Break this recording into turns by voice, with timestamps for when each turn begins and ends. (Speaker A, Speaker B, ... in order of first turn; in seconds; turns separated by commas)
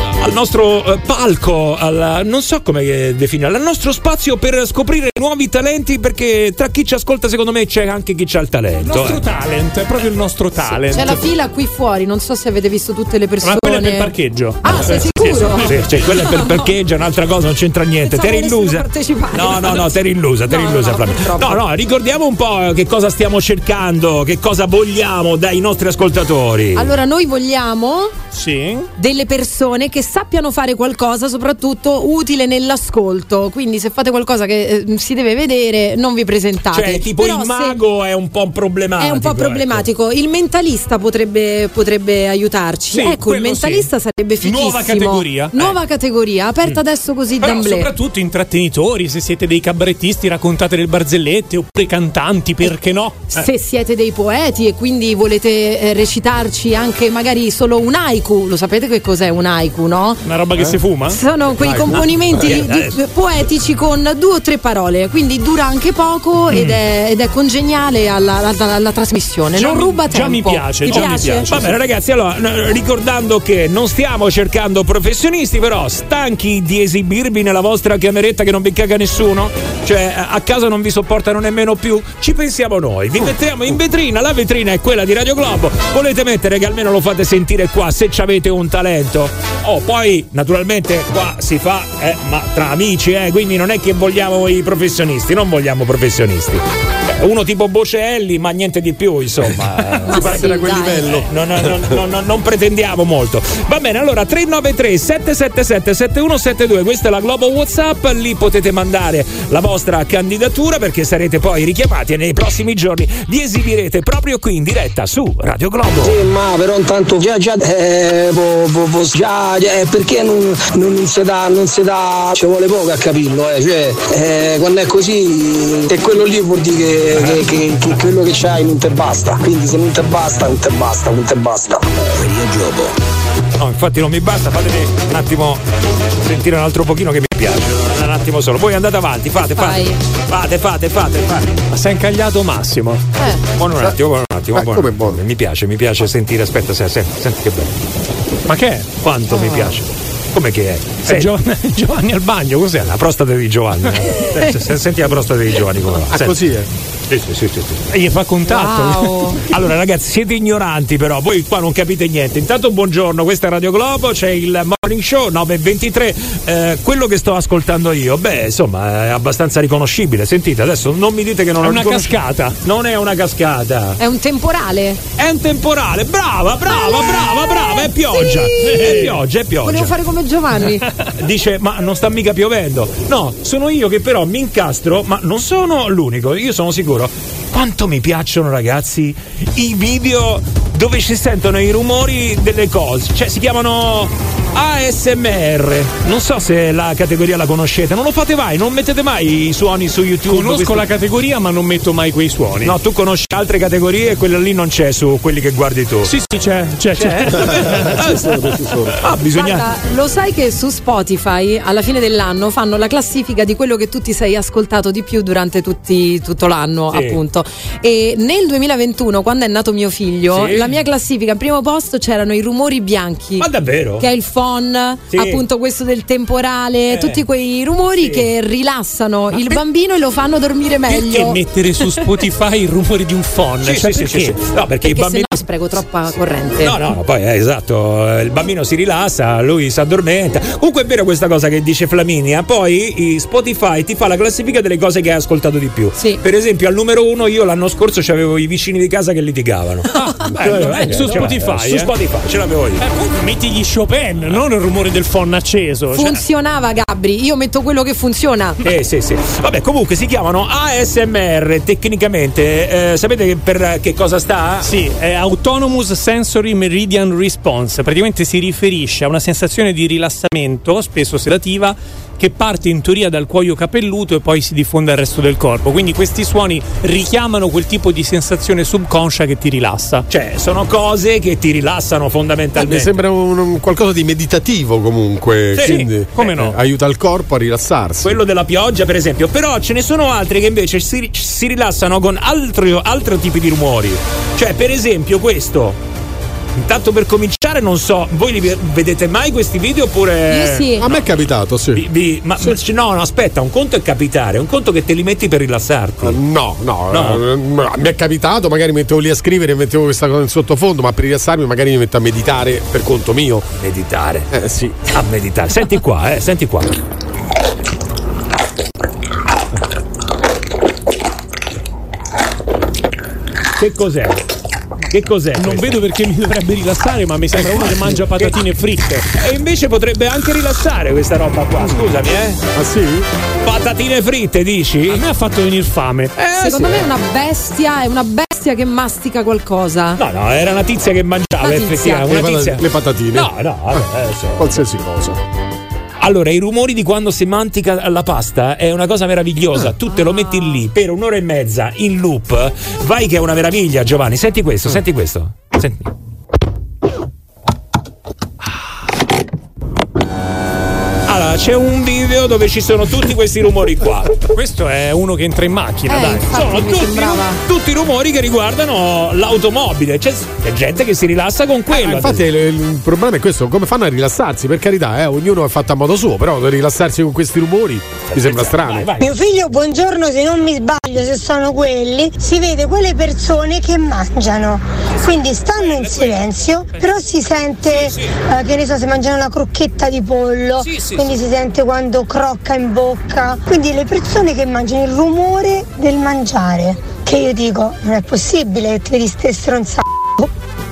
Speaker A: 0.2-9.2, Speaker B: 8.8-11.2, Speaker C: 10.9-16.6, Speaker B: 13.4-15.8, Speaker A: 15.6-26.9, Speaker C: 18.0-21.6, Speaker C: 26.7-28.2, Speaker B: 28.3-28.9, Speaker C: 29.0-37.8, Speaker A: 36.7-39.9, Speaker C: 39.0-47.9, Speaker B: 42.9-43.9, Speaker B: 44.4-45.7, Speaker B: 47.4-53.3, Speaker C: 53.3-60.2, Speaker B: 60.2-61.2, Speaker C: 61.1-71.5, Speaker D: 61.6-62.0, Speaker A: 62.3-62.9, Speaker A: 66.5-66.8, Speaker B: 69.5-71.8, Speaker A: 70.8-100.5, Speaker D: 100.0-101.9, Speaker C: 100.1-101.1, Speaker A: 101.1-116.2, Speaker E: 116.0-132.1, Speaker A: 133.6-135.6, Speaker A: 136.2-141.6, Speaker C: 139.6-139.9, Speaker B: 141.7-143.0, Speaker A: 143.6-147.7, Speaker D: 144.5-145.2, Speaker B: 148.5-149.0, Speaker A: 149.0-151.3, Speaker C: 149.3-149.7, Speaker B: 151.0-153.0, Speaker A: 152.8-156.4, Speaker D: 156.1-156.7, Speaker A: 157.1-157.8, Speaker B: 157.9-159.3, Speaker C: 158.5-159.4, Speaker A: 159.5-174.0, Speaker B: 171.6-172.6, Speaker C: 174.0-175.0, Speaker A: 175.2-179.9, Speaker B: 178.6-179.2, Speaker C: 179.6-180.8, Speaker A: 181.2-200.9, Speaker B: 200.3-202.8, Speaker A: 202.6-206.2, Speaker B: 206.0-208.0, Speaker A: 206.9-209.7, Speaker D: 207.5-209.0, Speaker C: 209.3-223.5, Speaker A: 216.9-217.2, Speaker A: 220.3-220.7, Speaker A: 223.4-224.1, Speaker C: 224.0-231.4, Speaker A: 225.1-225.4, Speaker A: 226.9-227.2, Speaker A: 228.0-228.3, Speaker B: 230.9-234.4, Speaker A: 233.6-235.5, Speaker C: 234.8-236.8, Speaker A: 236.6-252.8, Speaker B: 250.0-251.9, Speaker B: 252.8-256.2, Speaker C: 255.9-258.6, Speaker A: 258.6-264.7, Speaker B: 264.6-280.1, Speaker A: 280.1-283.0, Speaker D: 282.6-288.2, Speaker A: 285.5-285.8, Speaker B: 285.6-286.6, Speaker A: 288.0-295.8, Speaker A: 296.6-301.0, Speaker C: 300.3-300.8, Speaker D: 300.8-301.9, Speaker A: 301.7-306.2, Speaker D: 306.0-313.4, Speaker A: 306.9-307.2, Speaker A: 313.6-314.3, Speaker D: 314.3-314.8, Speaker A: 314.9-316.8, Speaker A: 323.6-324.2, Speaker A: 324.9-325.8, Speaker B: 325.4-329.0, Speaker A: 327.3-328.4, Speaker A: 329.1-332.4, Speaker D: 332.5-333.1, Speaker A: 333.4-335.0, Speaker B: 334.9-336.1, Speaker A: 336.1-336.9, Speaker C: 336.4-340.0, Speaker A: 340.0-344.6, Speaker C: 341.4-342.1, Speaker D: 342.0-343.8, Speaker D: 344.4-345.2, Speaker A: 346.0-355.8, Speaker C: 349.9-350.6, Speaker A: 361.1-364.2, Speaker B: 364.3-366.3, Speaker C: 365.9-367.4, Speaker A: 366.3-372.2, Speaker D: 371.7-378.9, Speaker A: 378.1-379.2, Speaker F: 379.0-400.3, Speaker A: 385.0-386.4, Speaker A: 387.7-388.1, Speaker A: 390.6-391.1